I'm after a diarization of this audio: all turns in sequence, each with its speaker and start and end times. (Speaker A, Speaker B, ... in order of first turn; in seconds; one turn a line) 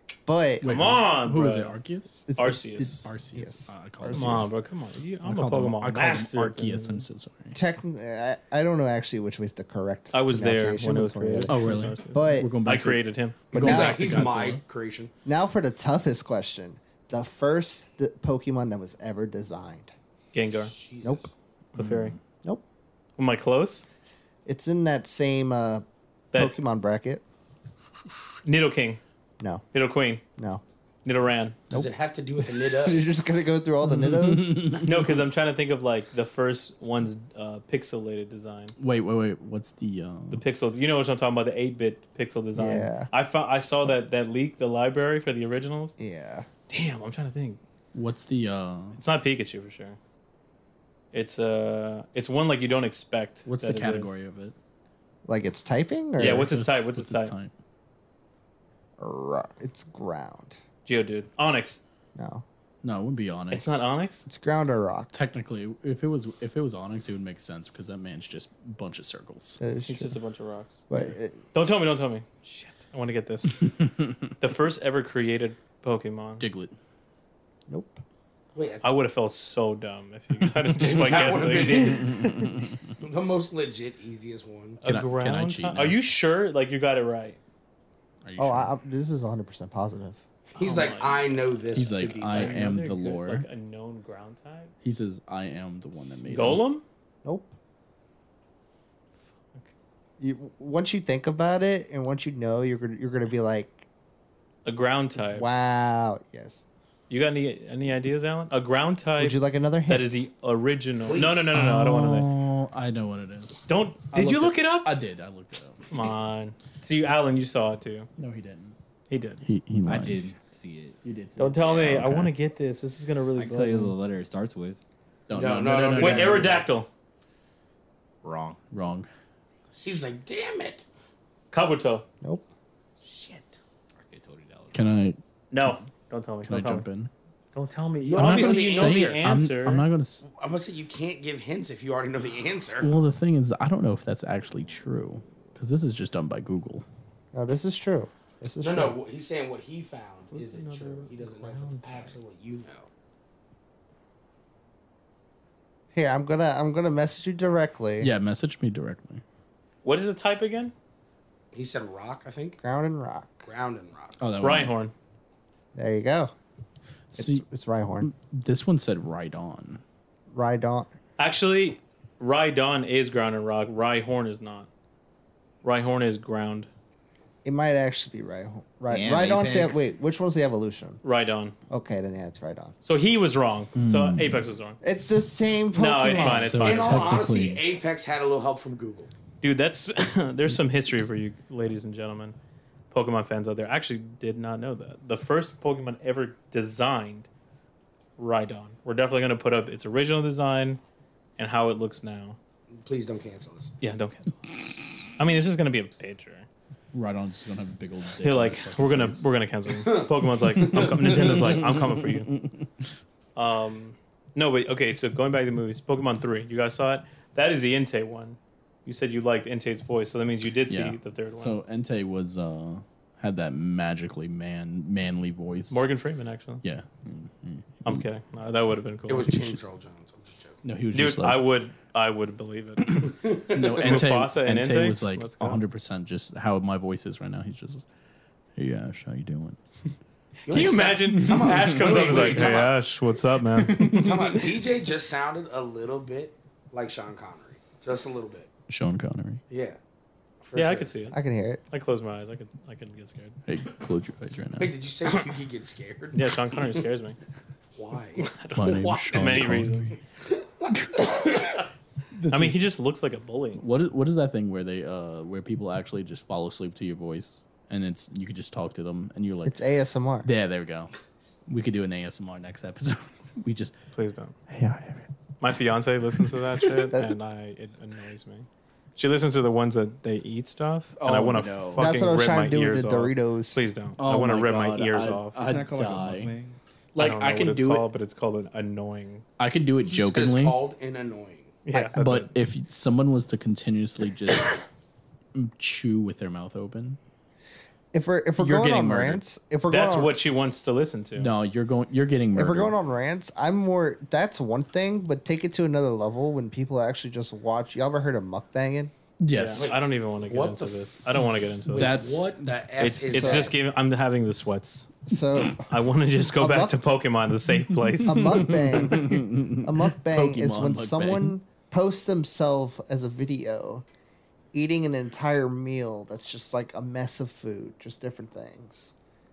Speaker A: 0.2-1.0
Speaker B: 0.6-2.2
Speaker C: 0.6-1.8
Speaker A: 2.2-4.5
Speaker C: 2.3-3.1
Speaker B: 3.0-4.5
Speaker C: 4.1-7.0
Speaker B: 5.2-7.6
Speaker A: 7.5-12.6
Speaker C: 10.1-13.4
Speaker B: 11.5-14.6
Speaker A: 13.5-14.2
Speaker D: 13.5-15.1
Speaker A: 15.2-19.9
Speaker C: 20.3-20.7
Speaker D: 20.6-21.3
Speaker A: 21.0-21.3
Speaker C: 21.7-22.1
Speaker B: 21.7-22.2
Speaker C: 23.2-23.9
Speaker A: 24.4-27.2
Speaker C: 28.4-29.0
Speaker C: 29.7-30.2
Speaker A: 30.4-30.6
Speaker C: 31.0-31.6
Speaker D: 31.7-33.0
Speaker A: 31.7-34.8
Speaker B: 33.8-35.2
Speaker C: 34.8-38.7
Speaker B: 38.8-40.4
Speaker C: 40.3-46.0
Speaker A: 42.5-43.1
Speaker A: 46.0-46.5
Speaker C: 46.7-47.6
Speaker B: 47.9-49.0
Speaker C: 49.0-50.0
Speaker C: 51.1-54.1
Speaker B: 53.5-54.5
Speaker A: 55.2-56.5
Speaker C: 56.2-57.3
Speaker B: 56.2-57.5
Speaker A: 59.0-60.6
Speaker C: 60.9-61.8
Speaker A: 62.1-62.4
Speaker B: 62.8-63.7
Speaker C: 63.5-64.2
Speaker A: 64.2-65.1
Speaker B: 65.1-69.6
Speaker A: 69.6-70.1
Speaker C: 69.9-70.8
Speaker A: 70.9-71.4
Speaker C: 71.5-76.4
Speaker B: 76.4-76.8
Speaker A: 77.7-78.0
Speaker D: 78.5-78.8
Speaker C: 78.8-82.5
Speaker B: 80.8-82.8
Speaker D: 80.8-82.3
Speaker D: 83.0-84.8
Speaker C: 84.8-87.4
Speaker B: 84.8-86.0
Speaker B: 88.2-88.7
Speaker A: 88.4-90.2
Speaker D: 90.5-92.8
Speaker C: 90.5-94.7
Speaker B: 91.7-93.5
Speaker B: 94.8-96.6
Speaker C: 96.3-96.8
Speaker A: 97.2-97.5
Speaker C: 99.4-99.7
Speaker A: 100.2-103.8
Speaker C: 104.6-105.5
Speaker A: 105.1-106.6
Speaker C: 107.1-112.3
Speaker A: 109.2-110.2
Speaker B: 111.5-115.8
Speaker C: 113.7-115.0
Speaker C: 115.9-118.1
Speaker B: 118.2-118.8
Speaker C: 119.1-119.4
Speaker B: 119.4-120.3
Speaker E: 119.9-121.0
Speaker B: 121.0-122.3
Speaker C: 121.4-124.0
Speaker E: 123.3-124.8
Speaker B: 125.3-126.6
Speaker D: 125.3-126.7
Speaker C: 126.0-126.9
Speaker E: 128.2-128.6
Speaker B: 128.7-129.1
Speaker D: 129.8-130.9
Speaker C: 131.5-132.0
Speaker A: 132.2-132.5
Speaker C: 133.0-133.6
Speaker E: 133.9-134.8
Speaker B: 134.7-135.8
Speaker C: 135.5-136.8
Speaker B: 136.4-137.1
Speaker C: 137.5-139.8
Speaker D: 138.0-139.2
Speaker B: 138.2-140.2
Speaker D: 140.2-142.9
Speaker B: 142.8-146.8
Speaker A: 147.3-149.0
Speaker D: 148.6-152.9
Speaker C: 150.3-152.2
Speaker A: 155.9-158.1
Speaker B: 158.0-159.2
Speaker C: 159.8-160.7
Speaker D: 161.5-162.6
Speaker A: 162.6-163.5
Speaker D: 163.4-164.2
Speaker B: 164.2-164.7
Speaker C: 164.4-164.9
Speaker A: 165.7-166.3
Speaker B: 167.1-167.4
Speaker A: 167.1-168.1
Speaker B: 168.0-169.8
Speaker A: 170.3-170.9
Speaker C: 171.2-174.7
Speaker C: 175.6-176.7
Speaker A: 177.4-181.0
Speaker E: 178.9-179.9
Speaker C: 181.0-181.5
Speaker A: 181.7-182.7
Speaker C: 182.8-184.8
Speaker B: 183.8-184.4
Speaker A: 184.8-186.7
Speaker C: 185.7-187.2
Speaker B: 186.1-187.6
Speaker D: 186.6-189.1
Speaker C: 189.4-192.3
Speaker C: 192.9-197.3
Speaker C: 198.2-200.8
Speaker C: 201.4-202.4
Speaker D: 202.7-203.8
Speaker C: 203.8-206.5
Speaker B: 206.9-209.2
Speaker C: 208.2-212.3
Speaker D: 209.7-211.4
Speaker B: 210.9-212.9
Speaker C: 213.3-221.6
Speaker B: 220.7-225.8
Speaker C: 225.7-226.6
Speaker B: 226.6-228.1
Speaker C: 227.8-229.6
Speaker D: 229.1-230.6
Speaker B: 230.6-231.4
Speaker C: 230.9-233.1
Speaker B: 232.9-237.8
Speaker D: 233.1-234.0
Speaker C: 233.8-235.6
Speaker B: 238.6-239.6
Speaker D: 240.5-242.8
Speaker C: 240.5-244.4
Speaker B: 241.3-242.5
Speaker B: 243.7-244.2
Speaker D: 243.7-248.5
Speaker B: 248.7-249.4
Speaker D: 249.5-249.8
Speaker D: 250.4-250.9
Speaker C: 250.5-251.2
Speaker A: 251.1-251.6
Speaker C: 251.7-253.4
Speaker B: 253.5-254.7
Speaker D: 254.6-256.8
Speaker C: 256.1-257.2
Speaker D: 257.8-258.3
Speaker C: 258.2-260.0
Speaker B: 258.5-259.9
Speaker D: 259.1-259.7
Speaker D: 260.2-261.6
Speaker B: 262.1-262.6
Speaker C: 262.3-263.6
Speaker B: 263.6-269.6
Speaker A: 269.4-270.3
Speaker B: 270.2-270.9
Speaker B: 271.5-273.8
Speaker C: 273.9-274.4
Speaker B: 274.5-275.1
Speaker C: 275.4-285.6
Speaker B: 281.0-281.9
Speaker A: 281.8-283.6
Speaker B: 284.0-286.3
Speaker E: 285.4-286.6
Speaker B: 286.9-287.9
Speaker C: 287.0-289.2
Speaker B: 289.4-290.6
Speaker D: 289.9-291.6
Speaker C: 291.6-292.3
Speaker B: 291.9-294.6
Speaker B: 295.3-297.0
Speaker A: 297.9-300.1
Speaker B: 298.4-299.2
Speaker C: 299.7-301.3
Speaker B: 301.1-302.7
Speaker A: 302.4-308.9
Speaker B: 309.2-309.7
Speaker C: 309.3-312.0
Speaker D: 309.6-310.8
Speaker D: 311.7-313.5
Speaker B: 311.7-312.5
Speaker C: 312.8-315.0
Speaker A: 313.1-313.5
Speaker A: 315.1-315.7
Speaker C: 315.5-318.7
Speaker A: 316.4-316.8
Speaker B: 317.6-321.4
Speaker A: 318.0-323.8
Speaker A: 324.5-328.9